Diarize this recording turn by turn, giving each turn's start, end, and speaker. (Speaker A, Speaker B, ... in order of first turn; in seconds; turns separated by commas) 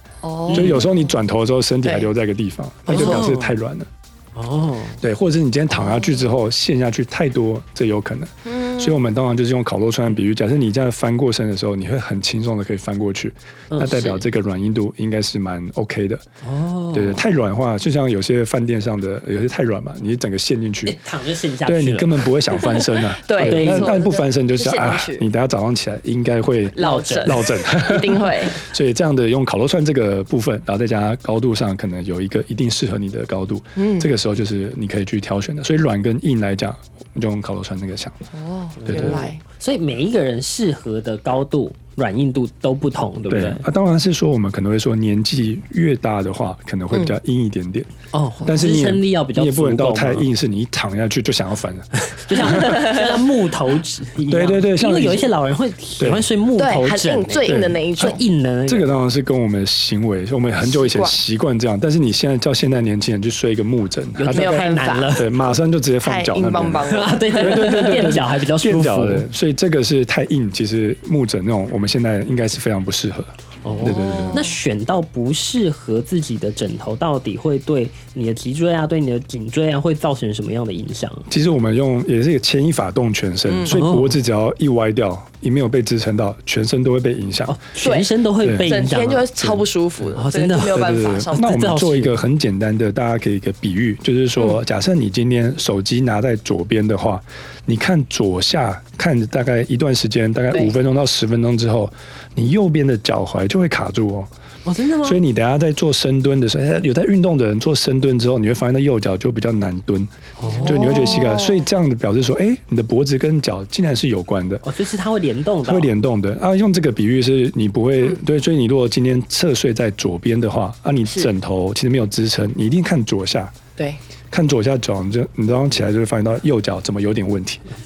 Speaker A: 0.2-0.9, Speaker B: 0.5-0.8, Speaker C: 0.5-3.9, Speaker A: 1.8-2.1, Speaker A: 2.9-3.2, Speaker B: 2.9-3.5, Speaker B: 4.3-5.0, Speaker C: 5.0-16.2, Speaker A: 5.8-6.1, Speaker A: 8.5-9.0, Speaker B: 13.7-14.2, Speaker B: 16.4-17.2, Speaker C: 16.9-21.0, Speaker B: 20.9-22.8, Speaker C: 21.6-38.2, Speaker A: 22.6-25.2, Speaker B: 23.4-24.0, Speaker A: 26.7-28.6, Speaker B: 26.8-27.4, Speaker A: 33.8-34.1, Speaker A: 38.3-39.4, Speaker B: 38.8-43.6, Speaker C: 38.9-39.2, Speaker C: 43.3-47.9, Speaker B: 48.1-50.3, Speaker C: 48.4-52.9, Speaker B: 52.0-58.9, Speaker A: 52.5-53.2, Speaker C: 54.3-55.3, Speaker C: 56.0-56.2, Speaker A: 56.5-58.2, Speaker C: 57.5-74.5, Speaker A: 60.6-61.1, Speaker B: 64.2-65.3, Speaker A: 64.3-65.2, Speaker A: 66.0-68.1, Speaker B: 66.8-69.3, Speaker B: 73.6-81.3, Speaker A: 73.8-74.5, Speaker C: 81.3-87.6, Speaker B: 83.6-84.2, Speaker B: 87.5-89.3, Speaker A: 87.8-91.5, Speaker C: 88.4-88.7, Speaker B: 90.1-92.2, Speaker C: 90.7-104.3, Speaker B: 104.6-105.2, Speaker C: 105.0-110.1, Speaker B: 110.4-111.1, Speaker A: 110.5-111.7, Speaker C: 110.6-114.6, Speaker B: 114.6-115.9, Speaker C: 115.6-123.5, Speaker C: 124.3-127.6